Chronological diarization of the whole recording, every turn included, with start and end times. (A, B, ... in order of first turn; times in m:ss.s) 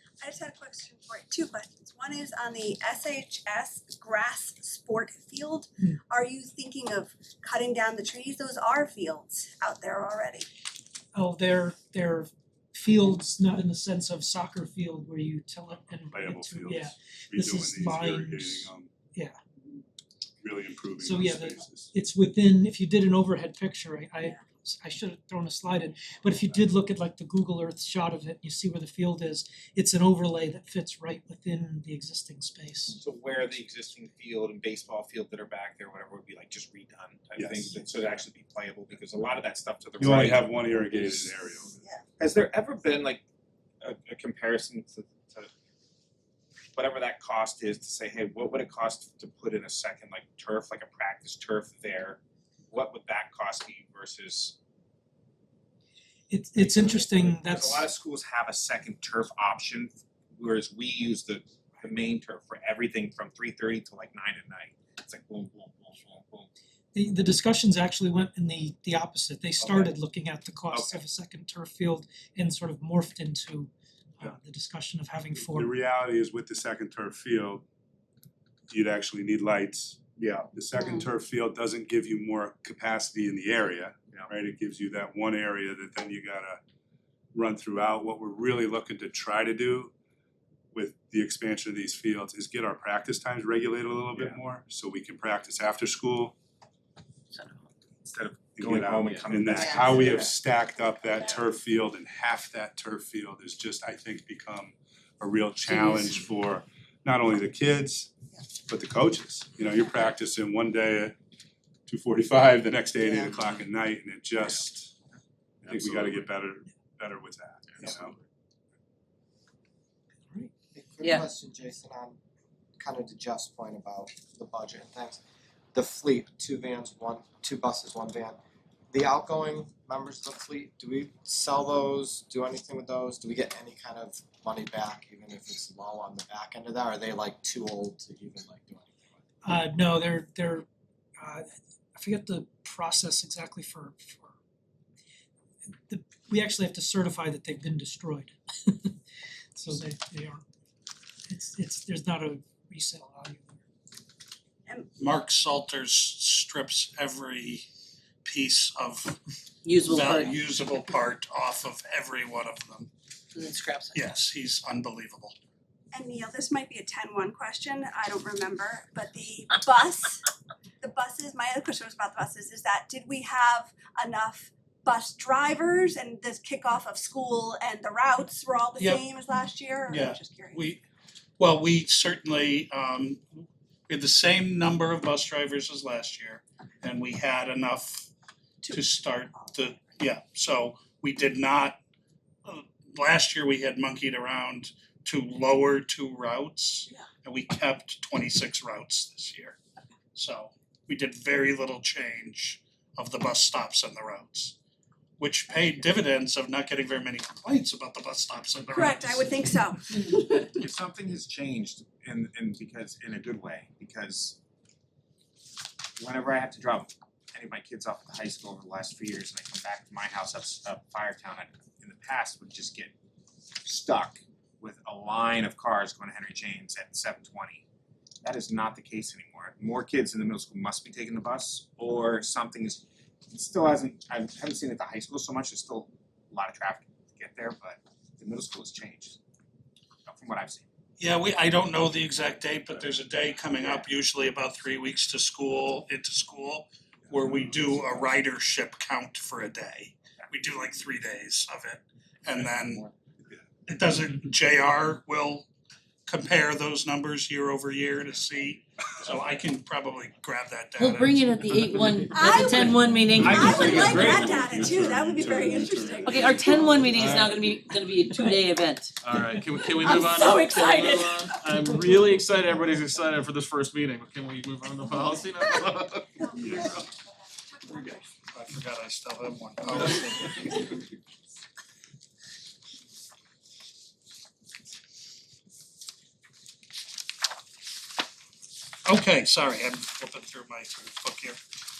0:00.2-0:10.5 A
0:11.1-0:19.4 B
0:16.1-0:18.9 C
0:20.4-0:21.9 C
0:21.0-0:33.0 B
0:32.9-0:41.3 D
0:37.4-0:38.1 C
0:40.0-0:41.8 C
0:42.2-0:43.2 D
0:43.8-0:45.5 D
0:46.7-0:54.6 D
0:56.3-0:57.9 B
0:56.6-1:06.5 D
1:06.9-1:15.7 B
1:09.6-1:09.9 D
1:10.7-1:11.0 D
1:15.4-1:17.6 C
1:18.7-1:26.6 C
1:27.3-1:29.9 C
1:30.7-1:36.3 C
1:37.3-1:37.6 E
1:38.0-1:40.3 D
1:38.6-1:51.1 C
1:39.4-1:40.3 E
1:45.6-1:46.1 E
1:51.9-1:54.9 C
1:55.6-1:58.2 C
2:00.7-2:02.2 F
2:02.8-2:05.2 F
2:05.7-2:08.4 F
2:08.9-2:19.2 F
2:19.4-2:20.6 B
2:21.2-2:24.4 B
2:25.7-2:28.9 B
2:29.5-2:30.4 B
2:31.3-2:33.6 B
2:35.0-2:37.6 G
2:38.2-2:39.2 G
2:39.6-2:40.4 E
2:39.8-2:42.9 G
2:43.3-2:44.0 E
2:43.9-2:45.3 G
2:45.9-2:50.2 A
2:50.8-3:00.6 A
2:58.8-2:59.1 G
2:59.9-3:00.8 G
3:01.4-3:08.1 G
3:08.6-3:09.6 A
3:08.7-3:11.8 G
3:12.4-3:19.6 G
3:20.1-3:24.6 G
3:25.2-3:29.2 G
3:28.7-3:30.5 A
3:30.5-3:34.4 D
3:36.0-3:42.9 D
3:43.6-3:47.6 D
3:48.2-3:59.2 D
4:00.0-4:00.6 D
4:01.0-4:12.8 G
4:13.7-4:15.5 G
4:16.1-4:21.2 G
4:20.8-4:24.3 E
4:22.1-4:22.6 A
4:23.3-4:26.2 A
4:23.3-4:24.9 H
4:26.0-4:28.9 E
4:26.4-4:27.4 H
4:29.0-4:36.8 H
4:29.8-4:31.2 E
4:38.3-4:40.7 G
4:48.8-4:51.4 G